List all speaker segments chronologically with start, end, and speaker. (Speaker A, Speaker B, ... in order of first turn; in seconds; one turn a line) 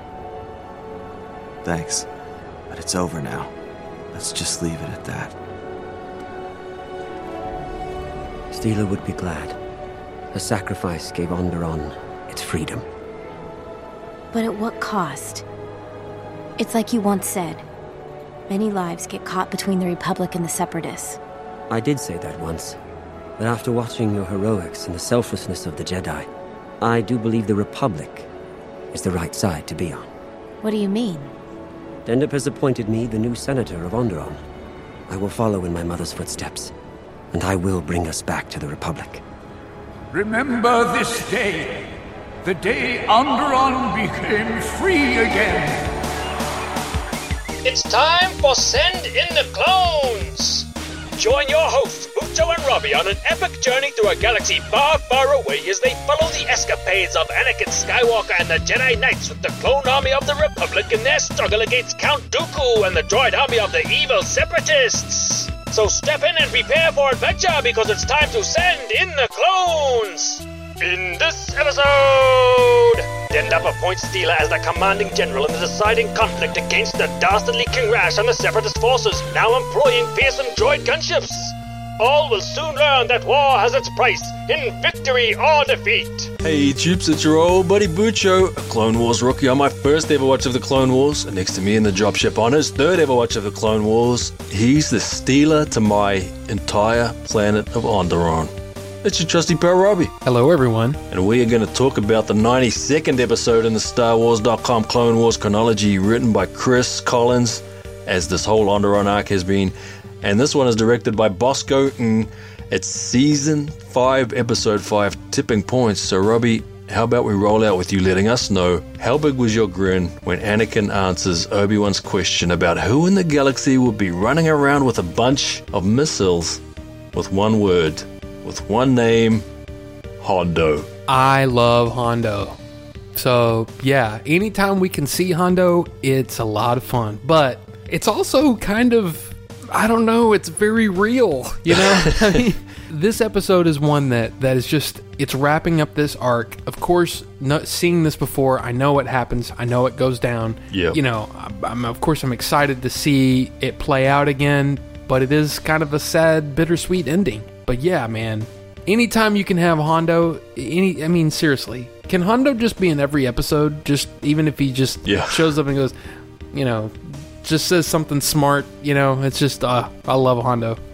Speaker A: 1.7-2.0
Speaker A: 2.9-3.4
Speaker A: 4.2-5.3
Speaker B: 8.5-9.6
Speaker B: 10.3-12.9
Speaker C: 14.3-15.4
Speaker C: 16.6-17.6
Speaker C: 18.5-21.2
Speaker B: 21.7-22.8
Speaker B: 23.4-26.3
Speaker B: 26.8-28.3
Speaker B: 28.9-30.1
Speaker C: 30.6-31.3
Speaker B: 32.1-34.4
Speaker B: 35.1-36.7
Speaker B: 37.3-39.2
Speaker D: 40.1-41.8
Speaker D: 42.4-45.9
Speaker E: 47.6-86.3
Speaker F: 86.4-98.5
Speaker F: 99.0-100.1
Speaker G: 100.2-101.0
Speaker F: 101.1-126.6
Speaker F: 127.1-129.4
Speaker F: 130.2-130.9
Speaker G: 131.1-132.6
Speaker G: 133.2-165.9
Speaker F: 141.7-142.4
Speaker F: 150.7-151.0
Speaker F: 165.1-165.5
Speaker G: 166.5-170.8